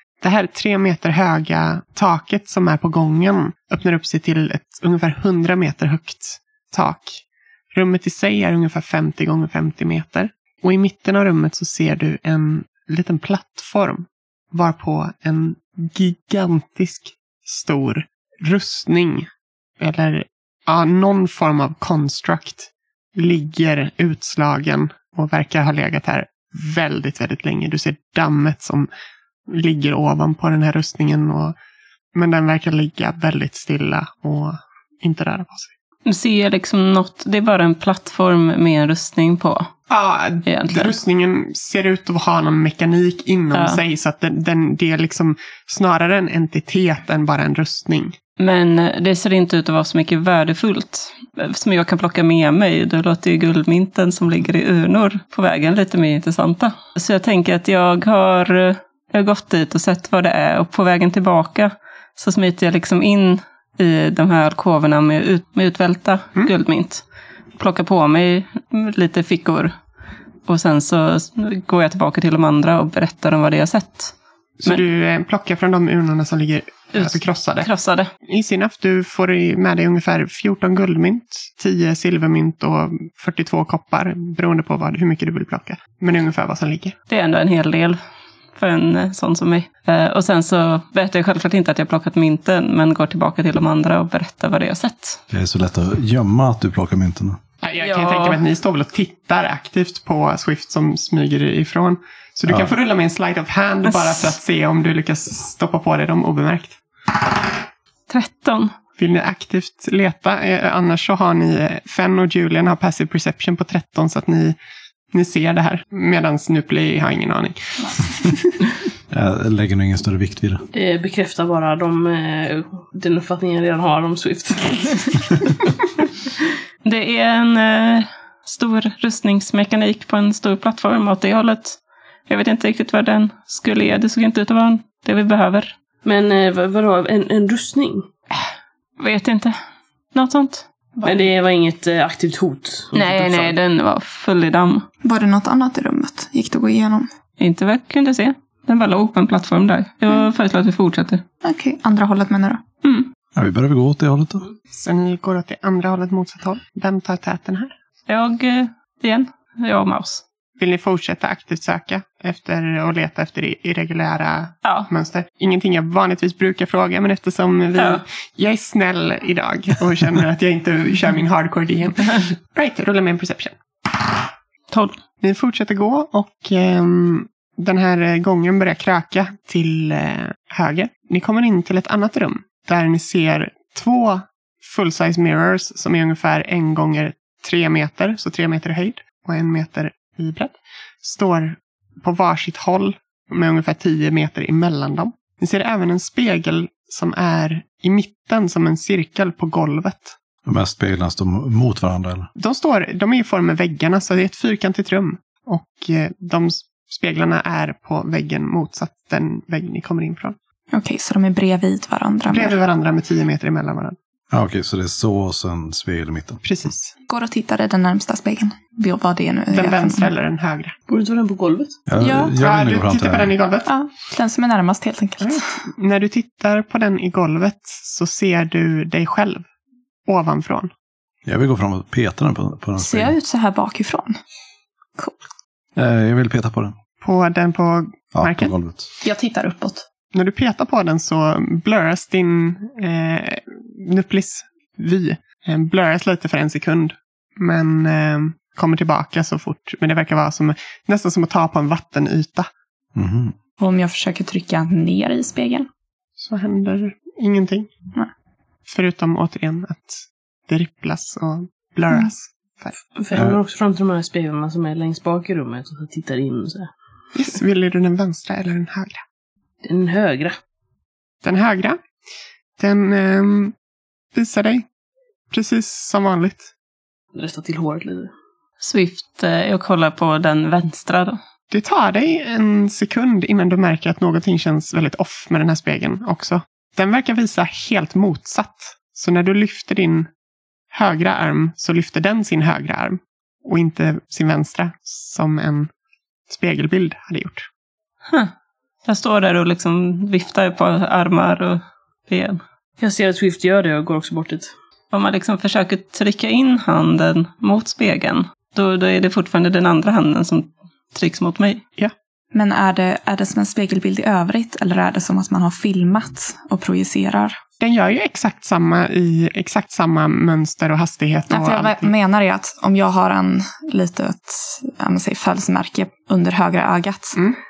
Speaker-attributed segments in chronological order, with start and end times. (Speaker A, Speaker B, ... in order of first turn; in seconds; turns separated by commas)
Speaker A: 0.2-19.3, Speaker A: 19.8-28.9, Speaker A: 29.5-31.6, Speaker A: 32.1-35.7, Speaker B: 36.1-39.7, Speaker A: 39.9-48.2, Speaker B: 40.5-41.0, Speaker B: 43.5-43.8, Speaker B: 48.4-67.0, Speaker B: 67.6-69.7, Speaker B: 70.5-74.1, Speaker A: 74.6-77.7, Speaker B: 76.9-78.1, Speaker A: 78.3-87.0, Speaker B: 87.1-88.0, Speaker B: 88.6-95.2, Speaker C: 95.3-97.4, Speaker A: 97.6-106.8, Speaker B: 97.8-98.4, Speaker C: 102.5-102.7, Speaker B: 103.9-104.4, Speaker B: 108.1-108.7, Speaker A: 109.0-114.6, Speaker A: 115.1-118.5, Speaker C: 119.1-120.6, Speaker D: 120.7-125.7, Speaker B: 126.8-135.8, Speaker D: 136.1-138.1, Speaker B: 139.0-139.6, Speaker B: 140.1-140.7, Speaker D: 141.0-143.5, Speaker B: 142.9-144.9, Speaker E: 145.0-147.1, Speaker B: 147.4-151.2, Speaker E: 151.4-152.7, Speaker C: 153.3-154.4, Speaker A: 154.7-157.7, Speaker B: 158.1-160.2, Speaker A: 160.6-173.6, Speaker B: 164.6-164.9, Speaker B: 167.8-168.0, Speaker B: 174.7-175.0, Speaker A: 175.2-200.2, Speaker C: 200.4-202.3, Speaker A: 202.4-210.4, Speaker E: 210.7-212.6, Speaker A: 212.3-214.0, Speaker C: 214.3-216.4, Speaker A: 216.4-216.9, Speaker E: 217.1-220.1, Speaker A: 219.5-220.8, Speaker D: 220.9-221.8, Speaker C: 221.9-223.3, Speaker E: 222.0-222.3, Speaker A: 222.4-223.7, Speaker E: 223.7-225.4, Speaker A: 225.2-229.4, Speaker A: 230.1-230.7, Speaker C: 231.3-233.2, Speaker E: 232.8-234.2, Speaker C: 235.8-236.8, Speaker A: 237.0-238.5, Speaker C: 238.2-238.9, Speaker E: 239.0-239.8, Speaker A: 240.1-252.5, Speaker C: 252.9-253.3, Speaker E: 253.6-255.7, Speaker A: 256.2-257.7, Speaker A: 258.7-262.8, Speaker D: 263.0-266.7, Speaker C: 263.1-263.4, Speaker A: 267.1-269.0, Speaker D: 269.6-270.4, Speaker A: 271.2-271.8, Speaker A: 272.6-273.5, Speaker A: 274.1-274.6, Speaker A: 275.3-276.5, Speaker D: 277.1-278.1, Speaker B: 278.6-281.2, Speaker A: 281.5-290.1, Speaker A: 290.7-295.7, Speaker A: 296.3-297.5, Speaker B: 298.9-302.4, Speaker D: 302.8-304.5, Speaker B: 304.9-311.6, Speaker E: 312.3-317.4, Speaker A: 317.6-321.9, Speaker E: 321.3-327.2